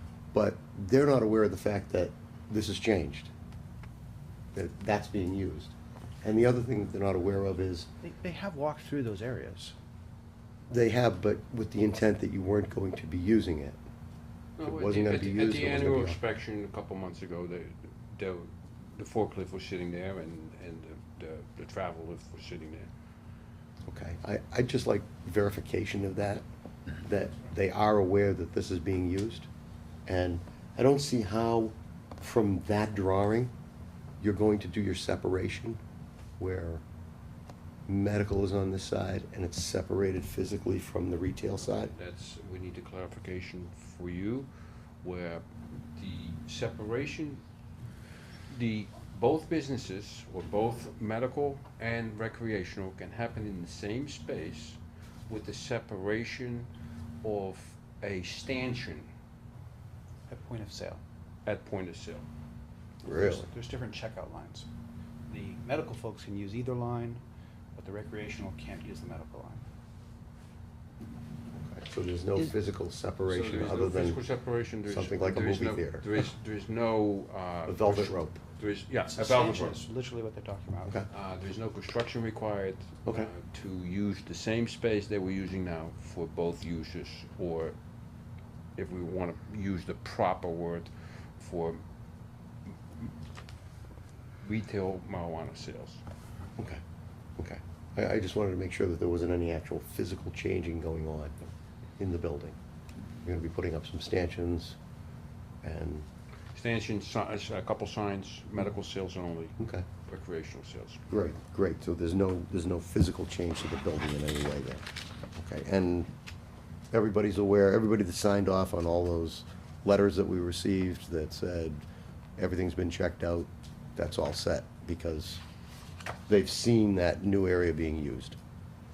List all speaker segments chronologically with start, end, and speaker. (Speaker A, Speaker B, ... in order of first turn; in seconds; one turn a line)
Speaker A: 0.3-3.3
Speaker A: 4.5-7.9
Speaker B: 8.0-9.7
Speaker A: 10.7-13.8
Speaker C: 14.6-22.9
Speaker A: 14.6-16.2
Speaker A: 23.9-26.4
Speaker A: 27.0-29.5
Speaker A: 30.1-33.5
Speaker A: 34.2-35.8
Speaker A: 36.4-36.8
Speaker A: 37.9-41.9
Speaker C: 41.9-44.5
Speaker C: 45.0-45.5
Speaker C: 46.0-47.4
Speaker C: 48.5-56.7
Speaker C: 57.2-59.1
Speaker B: 60.3-61.0
Speaker C: 61.5-62.3
Speaker A: 63.0-63.5
Speaker B: 63.1-64.7
Speaker B: 65.3-67.2
Speaker B: 67.8-69.6
Speaker A: 71.6-74.2
Speaker C: 73.3-79.8
Speaker A: 74.8-76.1
Speaker A: 77.7-78.4
Speaker B: 79.1-80.9
Speaker C: 81.1-87.8
Speaker A: 83.1-83.3
Speaker C: 88.8-91.8
Speaker C: 94.4-96.0
Speaker A: 97.4-101.3
Speaker A: 102.0-102.6
Speaker A: 103.2-104.8
Speaker A: 105.6-106.1
Speaker C: 106.5-109.5
Speaker A: 109.6-109.8
Speaker C: 110.1-111.0
Speaker A: 111.1-116.1
Speaker A: 116.9-121.8
Speaker A: 122.4-125.4
Speaker A: 126.3-128.4